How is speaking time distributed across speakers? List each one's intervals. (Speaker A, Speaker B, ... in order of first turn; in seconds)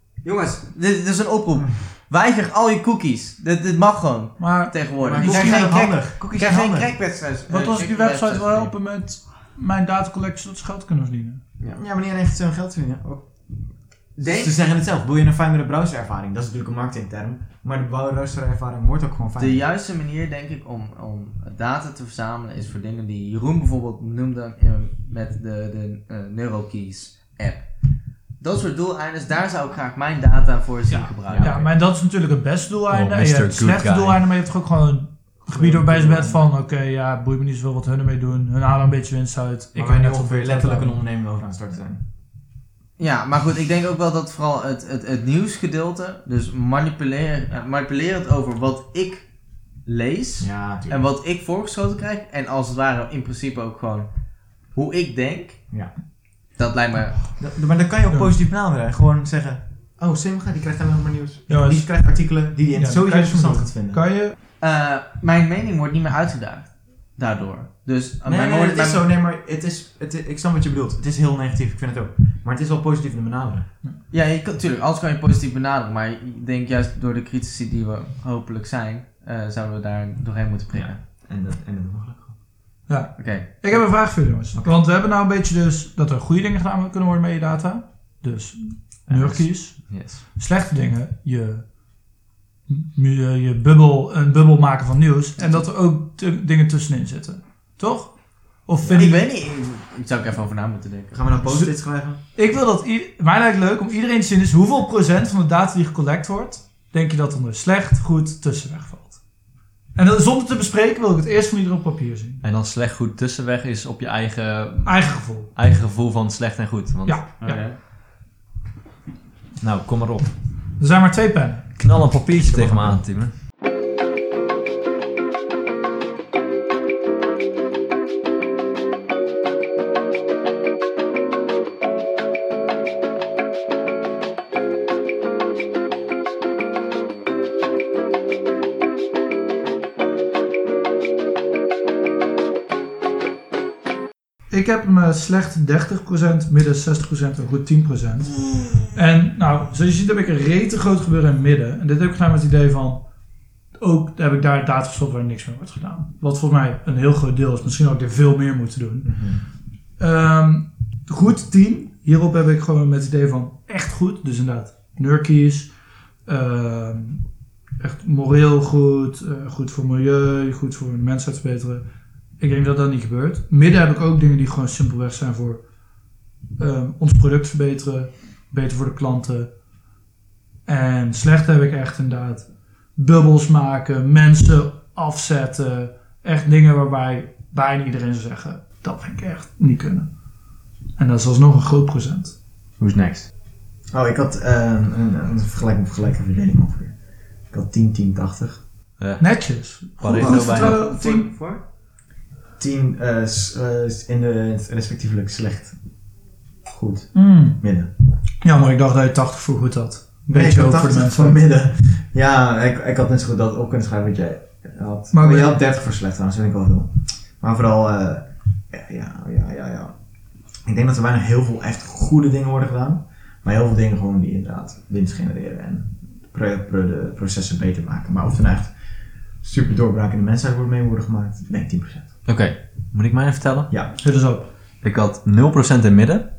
Speaker A: 0.2-8.7, 14.2-14.6, 19.4-27.7, 28.4-31.7, 43.0-49.3, 49.9-54.1, 54.7-55.6, 56.5-57.3, 64.6-69.0, 74.1-81.0, 83.2-83.8, 98.9-101.3, 117.4-117.8, 200.2-201.6
Speaker B: 4.4-5.8, 7.5-11.4, 30.9-41.0, 61.5-61.9, 62.7-64.3, 82.9-91.7, 92.7-99.3, 101.4-101.7, 102.3-109.2, 109.9-112.4, 114.8-115.5, 117.0-117.7, 120.8-121.7, 144.5-153.0, 153.8-159.1, 160.0-165.7, 166.2-167.2, 167.8-171.8, 172.4-175.6, 176.6-179.5, 180.7-190.1, 191.0-192.3, 199.2-201.3, 207.1-207.6, 208.4-211.4, 215.1-215.6, 234.0-234.5
Speaker C: 5.0-6.9, 11.7-13.3, 14.2-19.6, 31.3-31.6, 35.5-36.4, 39.7-42.0, 50.4-51.0, 57.4-64.0, 68.2-73.7, 80.7-82.3, 101.1-102.2, 122.4-123.0, 159.0-159.4, 193.9-196.9, 197.5-198.6, 202.6-205.7, 206.7-207.9, 210.3-219.9, 220.7-228.7, 229.4-232.1
Speaker D: 32.9-34.2, 89.1-90.2, 112.4-117.2, 119.6-120.3, 121.8-123.3, 192.8-193.3, 199.0-200.7, 232.2-233.7, 234.8-236.2